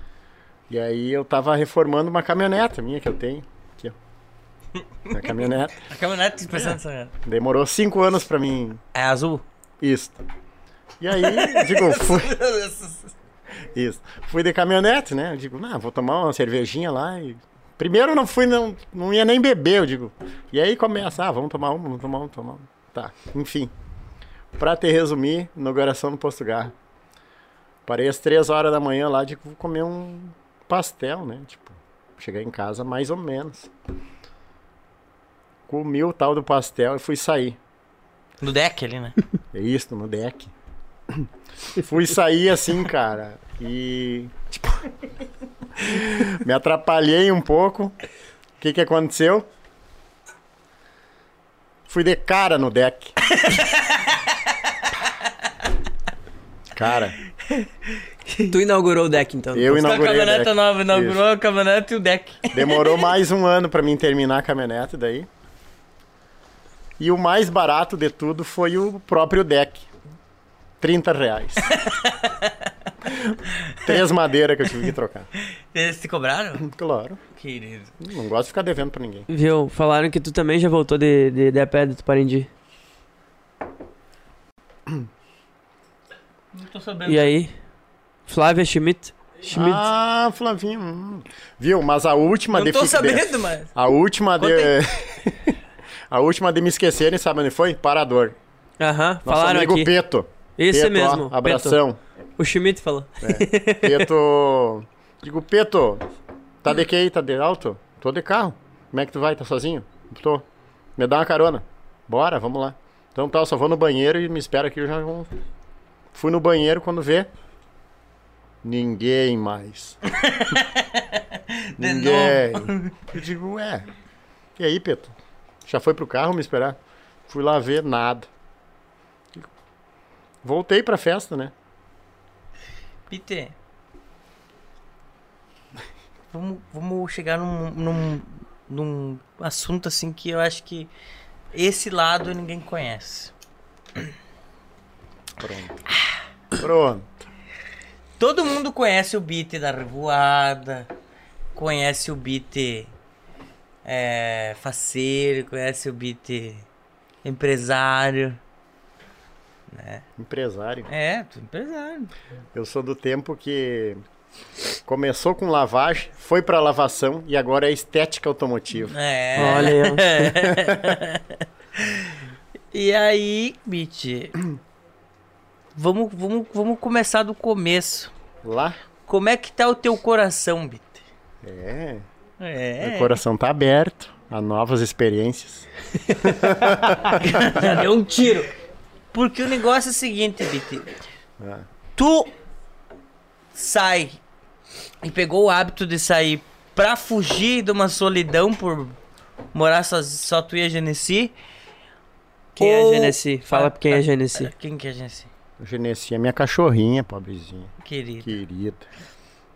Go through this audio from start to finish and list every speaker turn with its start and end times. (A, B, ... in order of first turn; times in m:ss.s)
0:00.7-0:04.0 A
0:05.1-0:05.8 A
0:05.9-0:07.1 B
0:06.5-0:08.8 A
0:08.9-0:09.4 B
0:09.8-0:10.2 A
0:11.0-0:12.4 A
0:11.2-0:13.1 B
0:13.7-0:23.7 A
0:24.6-0:26.7 A
0:27.8-0:33.7 A
0:35.7-0:37.6 A
0:38.4-0:39.2 B
0:39.5-0:40.5 A
0:41.1-0:44.9 A
0:45.8-0:48.0 A
0:48.6-0:49.5 A
0:51.9-0:53.2 A
0:53.3-0:54.2 B
0:56.7-0:57.2 A
0:58.5-0:59.8 C
0:59.5-1:01.2 A
0:59.7-1:03.0 B
1:02.5-1:05.3 A
1:07.0-1:09.9 A
1:10.8-1:11.7 A
1:11.7-1:12.5 B
1:13.1-1:15.3 A
1:13.6-1:14.0 B
1:15.7-1:16.7 B
1:16.6-1:17.2 A
1:17.3-1:17.9 B
1:18.0-1:19.3 A
1:19.3-1:22.5 C
1:26.5-1:27.4 B
1:27.1-1:27.5 C
1:28.3-1:29.8 C
1:29.5-1:35.6 A
1:32.5-1:33.7 B
1:34.4-1:34.7 B
1:36.1-1:38.4 A
1:38.8-1:39.9 C
1:39.2-1:42.0 A
1:40.6-1:41.8 C
1:42.4-1:44.1 C
1:43.2-1:46.1 A
1:46.6-1:50.4 A
1:51.0-1:55.3 A
1:56.1-1:57.3 A
1:58.6-2:00.0 A
2:00.1-2:03.0 B
2:01.8-2:03.9 A
2:04.6-2:05.1 A
2:05.7-2:06.8 A
2:07.3-2:08.3 A
2:10.4-2:11.5 A
2:13.1-2:13.5 B
2:16.3-2:20.9 B
2:21.5-2:23.3 B
2:25.4-2:25.8 A
2:26.6-2:27.1 A
2:28.2-2:30.9 B
2:31.6-2:32.9 B
2:33.8-2:36.6 B
2:37.2-2:38.4 B
2:39.7-2:40.0 B
2:40.2-2:40.9 A
2:40.9-2:42.1 B
2:42.6-2:44.0 A
2:44.9-2:49.7 A
2:48.9-2:52.1 B
2:49.4-2:50.0 C
2:50.3-2:51.0 A
2:52.7-2:54.4 B
2:55.8-2:58.1 B
2:58.4-2:58.8 A
2:59.1-3:01.0 B
3:01.4-3:02.1 A
3:02.4-3:03.2 B
3:02.8-3:05.7 A
3:06.2-3:07.2 A
3:06.3-3:08.5 C
3:07.2-3:07.9 B
3:09.1-3:10.9 B
3:11.4-3:11.7 A
3:12.0-3:12.3 B
3:13.5-3:14.2 B
3:15.0-3:19.0 B
3:19.5-3:21.3 B
3:22.6-3:25.3 B
3:22.6-3:24.5 C
3:25.6-3:27.7 A
3:27.8-3:28.3 B
3:28.2-3:28.9 A